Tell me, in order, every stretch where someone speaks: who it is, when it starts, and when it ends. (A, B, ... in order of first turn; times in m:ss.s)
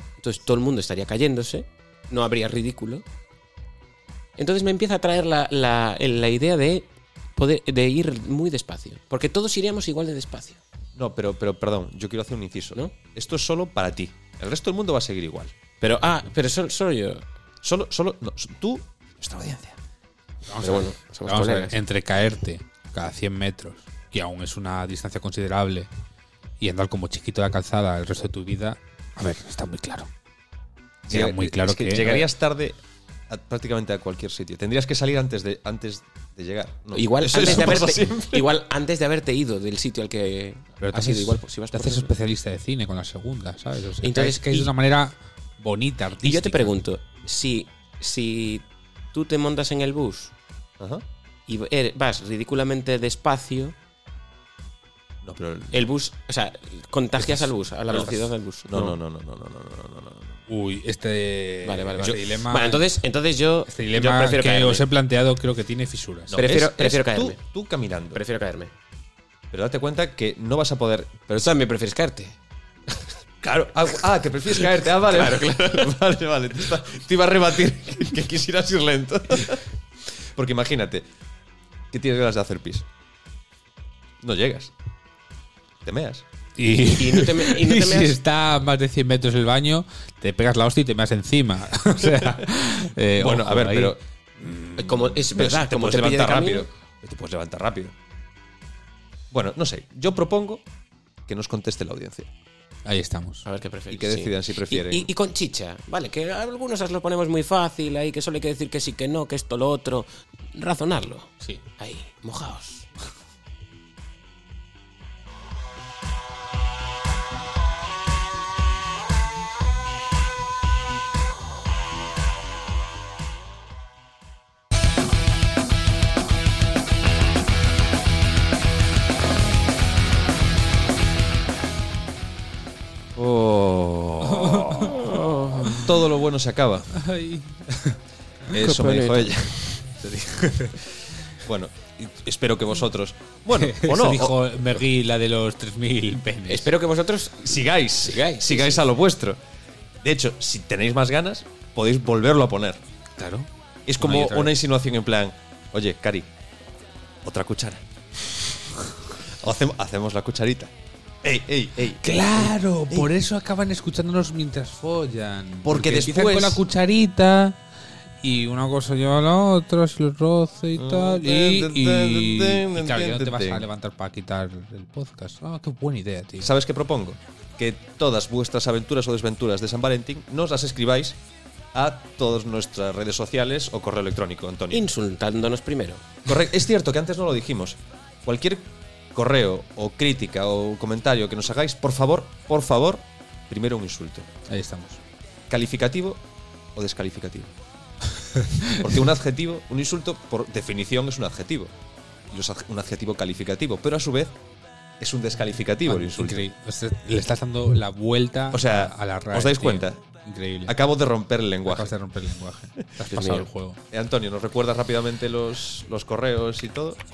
0:00.2-0:03.0 A
0:04.4-0:10.6 A
0:10.9-0:15.5 B
0:15.8-0:17.2 A
0:17.6-0:19.8 B
0:20.5-0:25.9 C
0:20.6-0:21.7 A
0:26.6-0:30.1 C
0:31.1-0:38.5 B
0:31.1-0:32.1 C
0:36.9-0:42.1 A
0:37.3-0:37.9 C
0:40.8-0:46.8 C
0:44.0-0:44.7 A
0:46.2-0:50.3 A
0:51.5-0:53.8 A
0:55.2-0:55.9 B
0:55.7-0:59.0 A
0:57.9-1:00.4 B
1:00.5-1:03.0 C
1:01.6-1:04.9 A
1:03.7-1:06.4 C
1:06.3-1:08.2 B
1:06.3-1:07.4 A
1:08.1-1:08.7 A
1:09.5-1:11.3 B
1:11.3-1:12.4 A
1:13.4-1:21.1 B
1:14.7-1:15.9 A
1:21.9-1:22.9 B
1:24.2-1:24.7 B
1:25.8-1:26.2 B
1:26.6-1:33.9 C
1:27.0-1:28.1 A
1:32.0-1:32.4 B
1:33.2-1:37.9 B
1:34.8-1:36.7 A
1:39.3-1:40.6 B
1:41.3-1:42.3 B
1:42.8-1:43.4 C
1:43.4-1:52.9 A
1:43.9-1:45.1 B
2:13.2-2:15.0 B
2:14.2-2:15.9 C
2:14.8-2:15.8 A
2:15.7-2:16.9 B
2:16.9-2:18.0 C
2:18.5-2:20.8 B
2:18.5-2:19.5 A
2:21.4-2:24.5 B
2:23.6-2:26.7 C
2:26.5-2:28.8 A
2:27.4-2:29.4 B
2:30.0-2:32.8 B
2:33.2-2:33.5 C
2:33.9-2:36.3 B
2:34.0-2:34.6 C
2:37.2-2:38.4 B
2:39.2-2:40.7 B
2:41.2-2:43.1 B
2:42.0-2:47.6 C
2:45.6-2:46.6 B
2:48.2-2:56.5 C
2:50.7-2:53.7 B
2:56.4-3:01.2 B
3:01.7-3:04.9 B
3:04.7-3:06.1 A
3:06.2-3:14.3 B
3:14.5-3:15.0 C
3:15.5-3:16.2 B
3:16.7-3:17.5 B
3:18.3-3:18.9 C
3:18.8-3:21.7 B
3:22.3-3:24.4 B
3:25.0-3:26.4 B
3:25.9-3:30.7 C
3:28.5-3:30.0 B
3:30.6-3:31.9 B
3:31.6-3:33.8 C
3:33.1-3:37.0 B
3:33.1-3:33.4 A